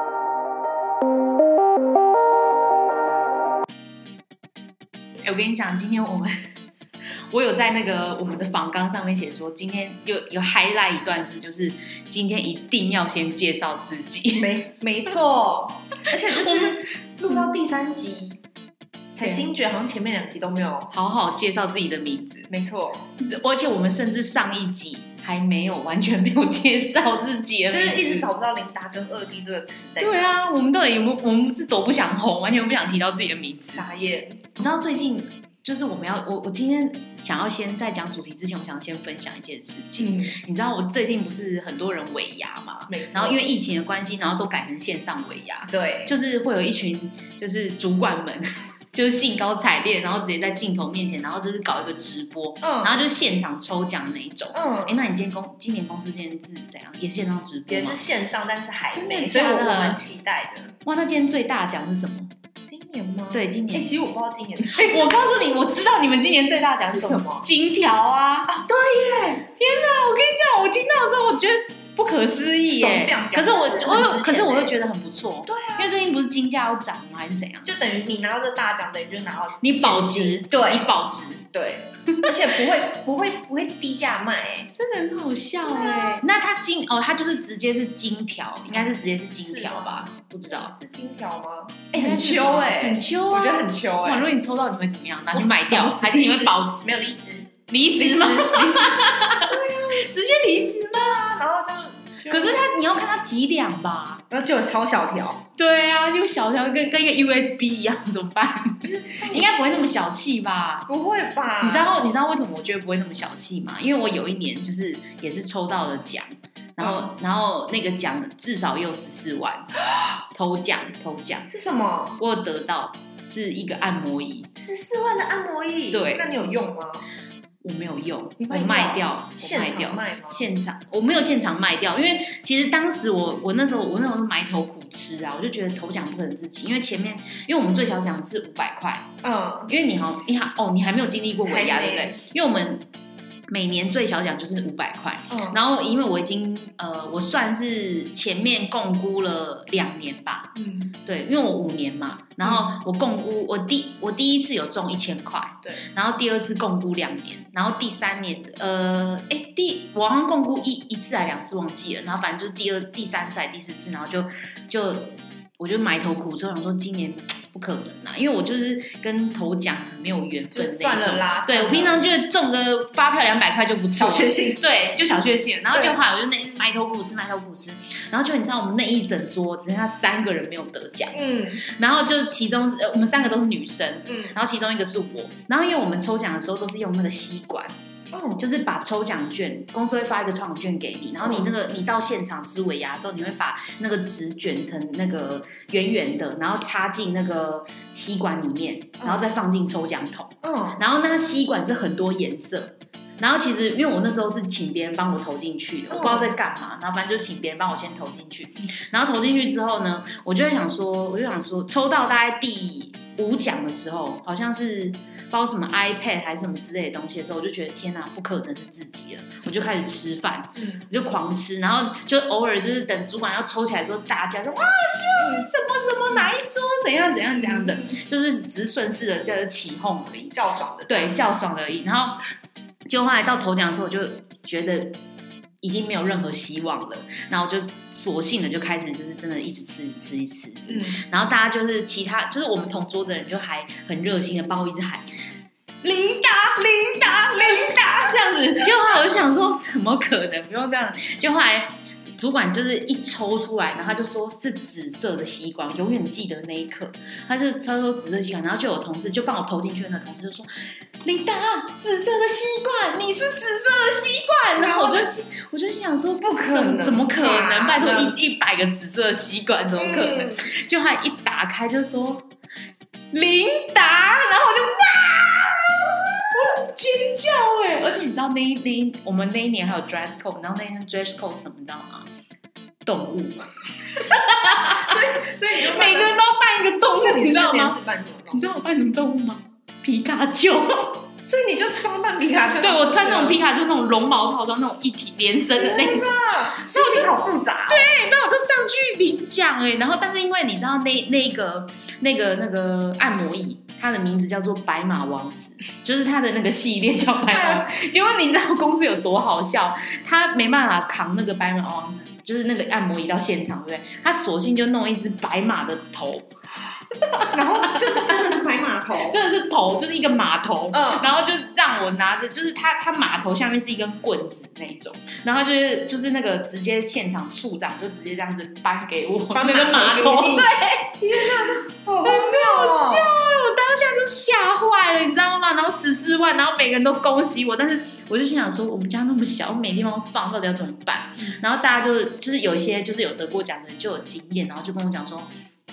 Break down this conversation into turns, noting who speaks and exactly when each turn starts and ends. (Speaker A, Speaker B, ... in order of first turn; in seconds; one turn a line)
Speaker A: 5.2-6.3
Speaker A: 7.3-14.6
Speaker B: 14.4-18.4
Speaker A: 16.4-16.7
Speaker B: 19.1-20.9
Speaker A: 19.2-19.5
Speaker A: 20.9-22.5
Speaker B: 22.5-23.1
Speaker A: 23.2-28.3
Speaker B: 27.7-30.3
Speaker A: 30.0-33.9
Speaker B: 33.8-34.5
Speaker A: 34.6-58.0
Speaker B: 40.0-40.4
Speaker B: 42.9-43.4
Speaker B: 45.7-46.1
Speaker B: 52.6-53.0
Speaker B: 54.5-55.0
Speaker B: 57.7-60.8
Speaker A: 58.9-60.0
Speaker A: 60.9-62.3
Speaker B: 62.6-65.1
Speaker A: 63.3-64.0
Speaker A: 64.8-68.5
Speaker B: 66.9-67.5
Speaker B: 68.5-69.5
Speaker A: 69.6-77.7
Speaker B: 72.7-74.7
Speaker B: 75.5-75.9
Speaker B: 77.6-80.9
Speaker A: 79.6-81.4
Speaker B: 81.5-84.7
Speaker A: 84.7-90.7
Speaker B: 85.6-86.2
Speaker B: 88.7-94.3
Speaker A: 91.9-96.9
Speaker B: 95.3-102.8
Speaker A: 97.7-101.2
Speaker A: 102.3-104.2
Speaker B: 104.3-105.4
Speaker A: 105.6-110.9
Speaker B: 108.8-109.5
Speaker B: 110.9-111.9
Speaker A: 111.6-119.7
Speaker B: 116.8-117.1
Speaker A: 120.3-121.5
Speaker B: 121.5-122.2
Speaker A: 122.2-124.5
Speaker B: 124.6-127.1
Speaker A: 125.9-126.3
Speaker A: 127.6-139.1
Speaker B: 128.4-130.4
Speaker B: 139.2-139.7
Speaker A: 139.7-142.8
Speaker B: 141.4-142.2
Speaker A: 143.5-187.8
Speaker B: 145.3-145.6
Speaker B: 150.6-150.9
Speaker B: 152.4-152.8
Speaker B: 170.5-172.1
Speaker B: 174.0-174.6
Speaker B: 181.1-181.6
Speaker B: 184.1-184.4
Speaker B: 188.1-188.4
Speaker A: 188.4-230.4
Speaker B: 191.2-191.5
Speaker B: 199.0-199.3
Speaker B: 200.4-200.8
Speaker B: 205.9-206.3
Speaker B: 220.6-220.8
Speaker B: 225.2-225.4
Speaker B: 227.4-227.9
Speaker B: 230.3-231.2
Speaker A: 230.9-232.2
Speaker A: 232.9-235.0
Speaker A: 235.6-245.1
Speaker B: 240.7-241.0
Speaker B: 245.8-249.0
Speaker A: 247.0-260.5
Speaker A: 261.0-272.3
Speaker B: 264.6-265.1
Speaker B: 266.2-268.1
Speaker B: 269.8-270.4
Speaker A: 273.1-275.6
Speaker B: 274.7-275.3
Speaker A: 276.3-282.1
Speaker A: 282.9-285.0
Speaker B: 284.0-286.1
Speaker A: 285.6-287.8
Speaker B: 286.9-288.6
Speaker A: 288.3-291.0
Speaker B: 291.3-293.4
Speaker A: 292.6-296.1
Speaker B: 295.6-297.9
Speaker A: 296.7-316.3
Speaker B: 307.2-307.7
Speaker A: 317.0-318.4
Speaker B: 317.3-319.2
Speaker A: 319.0-345.3
Speaker B: 320.7-321.1
Speaker B: 329.3-333.1